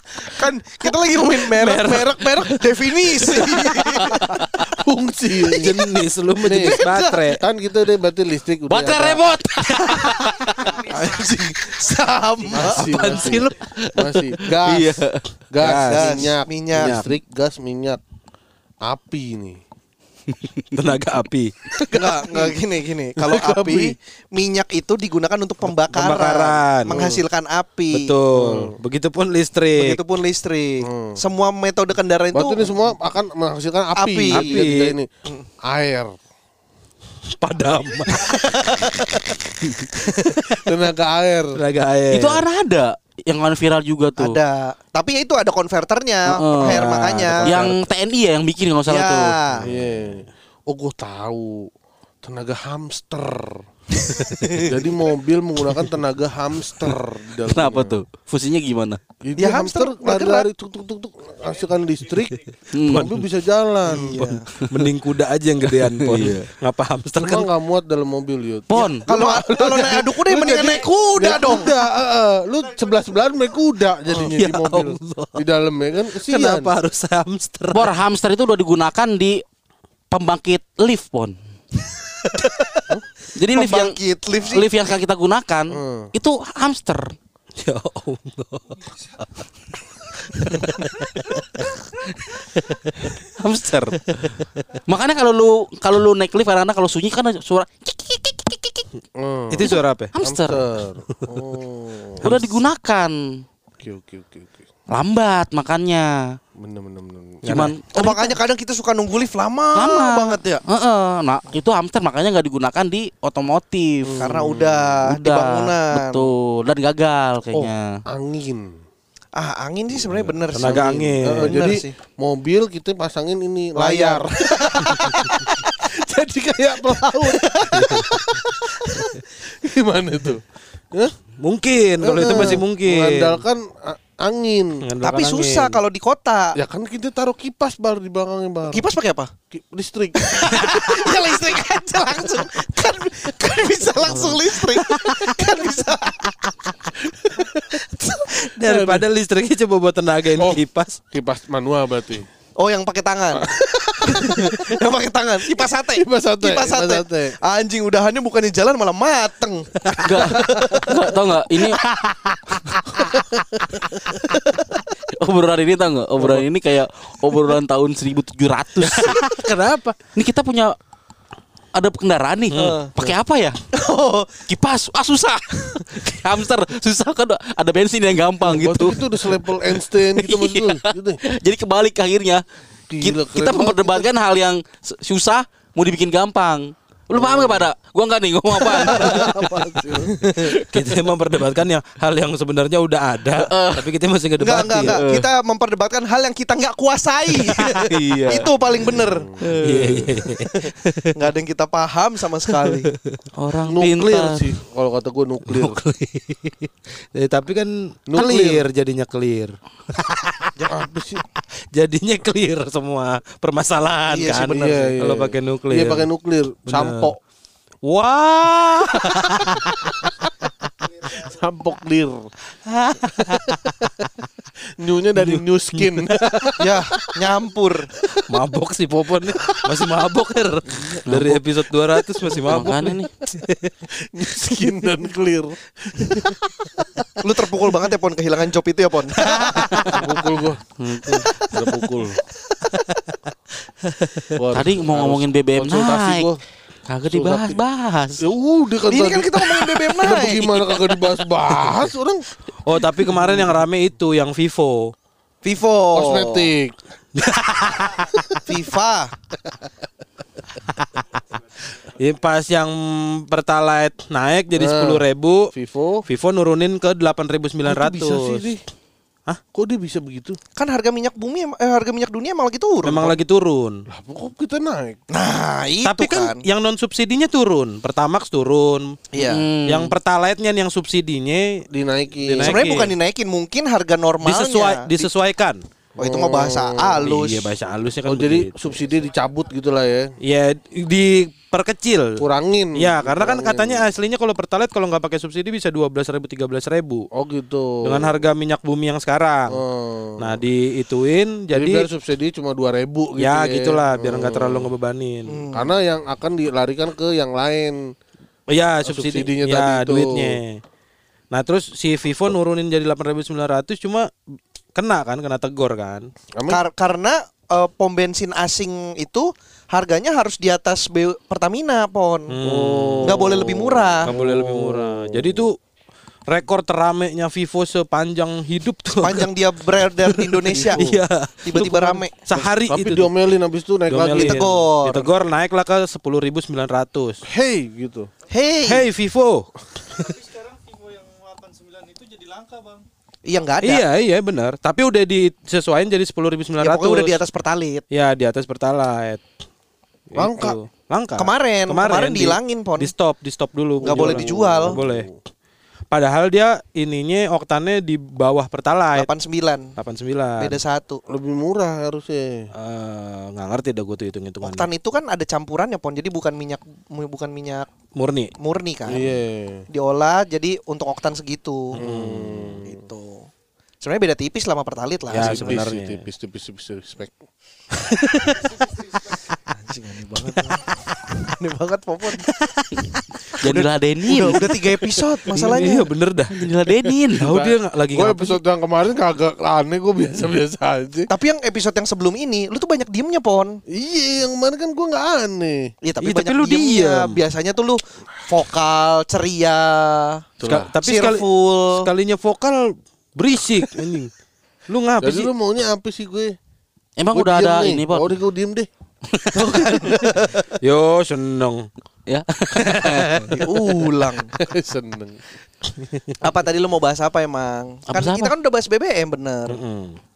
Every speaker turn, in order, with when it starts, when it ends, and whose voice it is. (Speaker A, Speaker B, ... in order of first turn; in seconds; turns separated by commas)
Speaker A: 0.2-4.7, Speaker B: 1.5-4.4, Speaker C: 4.8-5.8, Speaker A: 5.5-5.9, Speaker B: 5.5-7.4, Speaker C: 6.4-9.2, Speaker A: 6.4-7.3, Speaker D: 8.7-10.8, Speaker A: 10.8-13.2, Speaker C: 12.5-15.0, Speaker D: 12.9-15.2, Speaker C: 15.5-18.0, Speaker B: 15.6-17.1, Speaker A: 15.9-17.0, Speaker C: 18.8-19.6, Speaker D: 20.3-20.8, Speaker B: 20.7-21.5, Speaker C: 21.8-22.6, Speaker A: 21.9-28.1, Speaker C: 23.2-23.9, Speaker B: 25.7-27.1, Speaker C: 26.9-27.2, Speaker B: 27.9-30.0, Speaker C: 28.3-28.8, Speaker A: 29.7-32.7, Speaker C: 30.8-31.2, Speaker C: 32.3-35.1, Speaker A: 34.0-34.6, Speaker B: 34.3-35.0, Speaker C: 35.6-36.1, Speaker B: 37.4-40.5, Speaker A: 38.2-39.2, Speaker C: 40.6-41.6, Speaker B: 41.5-42.4, Speaker D: 42.1-44.4, Speaker A: 44.2-47.5, Speaker D: 46.2-49.4, Speaker B: 46.7-47.8, Speaker C: 47.1-47.5, Speaker A: 48.9-49.7, Speaker C: 49.6-51.7, Speaker C: 52.2-53.6, Speaker B: 54.2-54.5, Speaker C: 54.6-58.0, Speaker D: 57.5-59.0, Speaker C: 59.2-64.2, Speaker A: 59.4-60.5, Speaker E: 61.6-62.4, Speaker D: 62.7-63.1, Speaker B: 62.9-63.2, Speaker A: 63.8-64.5, Speaker B: 64.0-67.5, Speaker D: 64.6-64.9, Speaker D: 65.7-66.5, Speaker C: 67.2-76.7, Speaker D: 68.7-69.1, Speaker A: 69.0-71.7, Speaker B: 74.1-75.4, Speaker B: 76.1-77.9, Speaker D: 77.7-79.4, Speaker D: 80.1-81.4, Speaker A: 82.2-82.9, Speaker D: 83.4-84.0, Speaker A: 83.5-84.7, Speaker D: 84.5-87.1, Speaker C: 85.7-86.1, Speaker B: 87.6-89.3, Speaker B: 90.3-91.7, Speaker B: 92.3-93.1, Speaker D: 93.2-98.9, Speaker C: 99.2-102.2, Speaker B: 99.5-100.1, Speaker D: 99.7-100.6, Speaker B: 102.2-102.6, Speaker D: 102.2-103.4, Speaker C: 103.8-104.6, Speaker D: 104.9-106.3, Speaker C: 106.6-107.4, Speaker B: 107.4-107.7, Speaker D: 107.5-108.3, Speaker A: 107.9-110.6, Speaker D: 109.7-114.3, Speaker C: 114.0-114.9, Speaker A: 114.2-116.3, Speaker D: 115.0-118.0, Speaker C: 117.5-118.7, Speaker A: 119.3-121.9, Speaker B: 120.5-121.7, Speaker C: 120.5-131.1, Speaker A: 123.8-125.7, Speaker A: 127.1-129.0, Speaker B: 127.7-128.1, Speaker B: 131.4-133.4, Speaker C: 132.0-134.8, Speaker A: 132.1-132.6, Speaker B: 134.8-135.8, Speaker A: 135.0-136.6, Speaker C: 136.6-138.8, Speaker A: 138.7-139.3, Speaker C: 139.5-140.4, Speaker A: 140.2-148.5, Speaker B: 140.6-140.9, Speaker B: 145.1-145.4, Speaker B: 148.4-151.0, Speaker C: 148.7-149.1, Speaker C: 150.4-152.3, Speaker A: 152.6-163.3, Speaker C: 153.4-154.6, Speaker C: 155.6-157.4, Speaker D: 160.0-161.8, Speaker A: 164.2-164.8, Speaker D: 165.1-169.2, Speaker B: 168.8-170.0, Speaker D: 170.1-170.8, Speaker D: 171.7-173.6, Speaker B: 172.5-172.8, Speaker A: 172.6-172.9, Speaker A: 173.7-174.4, Speaker D: 174.5-179.6, Speaker C: 178.4-181.2, Speaker D: 180.2-182.4, Speaker C: 182.9-184.1, Speaker D: 183.0-189.4, Speaker C: 187.1-187.7, Speaker C: 188.6-190.4, Speaker B: 190.6-195.0, Speaker D: 193.4-193.9, Speaker A: 194.4-199.3, Speaker D: 194.9-195.3, Speaker D: 197.7-198.5, Speaker C: 198.9-199.4, Speaker D: 199.4-200.2, Speaker B: 199.6-201.2, Speaker A: 200.6-202.9, Speaker B: 202.6-203.2, Speaker D: 203.4-204.5, Speaker C: 203.7-205.8, Speaker B: 205.6-210.5, Speaker C: 208.1-208.6, Speaker A: 208.2-208.6, Speaker C: 210.7-211.2, Speaker B: 211.7-216.1, Speaker A: 214.1-214.9, Speaker C: 214.4-217.2, Speaker B: 216.7-217.1, Speaker B: 217.8-220.1, Speaker C: 221.1-222.2, Speaker B: 222.7-223.8, Speaker C: 223.3-223.9, Speaker C: 224.8-226.9, Speaker B: 225.2-226.5, Speaker A: 226.6-227.9, Speaker B: 228.2-233.8, Speaker D: 231.1-231.4, Speaker D: 232.4-233.1, Speaker C: 233.9-236.8, Speaker A: 237.2-240.0, Speaker D: 239.5-239.9, Speaker C: 239.9-240.6, Speaker D: 240.8-241.3, Speaker C: 241.3-242.2, Speaker C: 244.3-246.4, Speaker D: 244.5-246.3, Speaker D: 246.9-248.2, Speaker C: 247.1-247.6, Speaker C: 248.2-252.2, Speaker A: 248.9-250.8, Speaker B: 252.6-254.9, Speaker A: 255.4-256.5, Speaker C: 255.9-256.7, Speaker B: 257.1-258.4, Speaker A: 258.4-259.1, Speaker B: 261.8-265.5, Speaker C: 264.6-266.0, Speaker B: 266.1-268.6, Speaker C: 267.6-268.6, Speaker C: 269.5-270.4, Speaker A: 270.6-273.1, Speaker B: 272.8-273.8, Speaker C: 273.9-275.0, Speaker A: 275.1-276.4, Speaker B: 275.8-279.0, Speaker A: 279.1-279.5, Speaker D: 279.2-279.9, Speaker B: 279.6-281.6, Speaker C: 281.7-282.6, Speaker B: 282.2-282.9, Speaker A: 282.4-285.1, Speaker B: 284.2-285.6, Speaker C: 286.0-287.1, Speaker A: 286.0-287.5, Speaker B: 287.0-288.8, Speaker C: 288.1-290.1, Speaker B: 290.2-292.2, Speaker C: 292.2-293.8, Speaker B: 292.7-297.1, Speaker C: 297.1-298.2, Speaker B: 297.8-299.6, Speaker C: 299.5-300.3, Speaker B: 300.2-301.9, Speaker C: 301.5-304.7, Speaker B: 303.2-305.5, Speaker A: 305.3-305.7, Speaker C: 305.5-307.8, Speaker B: 308.5-310.6, Speaker C: 308.8-310.4, Speaker B: 311.3-314.1, Speaker B: 314.7-316.1, Speaker C: 316.3-316.6, Speaker A: 316.5-322.4, Speaker B: 322.3-323.4, Speaker C: 322.4-325.5, Speaker A: 323.0-324.1, Speaker B: 324.0-325.6, Speaker B: 326.3-329.3, Speaker A: 329.0-330.9, Speaker B: 329.9-333.1, Speaker A: 331.4-332.1, Speaker C: 332.7-334.6, Speaker B: 333.9-337.2, Speaker A: 334.1-335.1, Speaker C: 337.2-338.1, Speaker A: 338.3-338.9, Speaker B: 338.6-339.5, Speaker E: 339.9-342.9, Speaker A: 343.2-343.8, Speaker B: 343.6-347.2, Speaker A: 346.6-347.8, Speaker B: 347.9-349.2, Speaker B: 350.1-355.1, Speaker C: 350.1-350.6, Speaker A: 351.2-352.9, Speaker C: 353.8-355.1, Speaker A: 353.8-354.8, Speaker B: 355.9-359.1, Speaker A: 358.9-359.7, Speaker B: 359.8-360.6, Speaker A: 360.4-361.0, Speaker C: 361.1-362.5, Speaker B: 362.5-364.7, Speaker A: 364.4-367.7, Speaker B: 367.9-368.3, Speaker A: 368.4-369.1, Speaker C: 368.9-369.7, Speaker A: 369.7-371.8, Speaker B: 371.7-372.6, Speaker C: 371.8-372.8, Speaker A: 372.6-373.3, Speaker A: 373.8-375.6, Speaker B: 375.1-376.1, Speaker C: 375.1-377.2, Speaker A: 379.5-382.3, Speaker D: 382.3-384.5, Speaker A: 383.5-385.9, Speaker B: 385.3-388.4, Speaker D: 386.3-387.3, Speaker C: 387.2-391.1, Speaker A: 391.1-393.6, Speaker C: 393.7-395.7, Speaker A: 395.8-400.2, Speaker B: 396.0-397.2, Speaker C: 400.4-400.7, Speaker B: 400.4-404.1, Speaker A: 400.8-401.9, Speaker B: 404.7-405.3, Speaker C: 405.0-406.4, Speaker D: 407.0-408.1, Speaker C: 407.1-408.7, Speaker D: 409.1-410.0, Speaker A: 409.3-410.5, Speaker B: 410.6-411.7, Speaker D: 412.1-413.4, Speaker B: 412.8-413.2, Speaker A: 413.4-414.3, Speaker C: 413.6-415.2, Speaker A: 416.2-419.6, Speaker D: 417.9-418.3, Speaker B: 419.5-420.0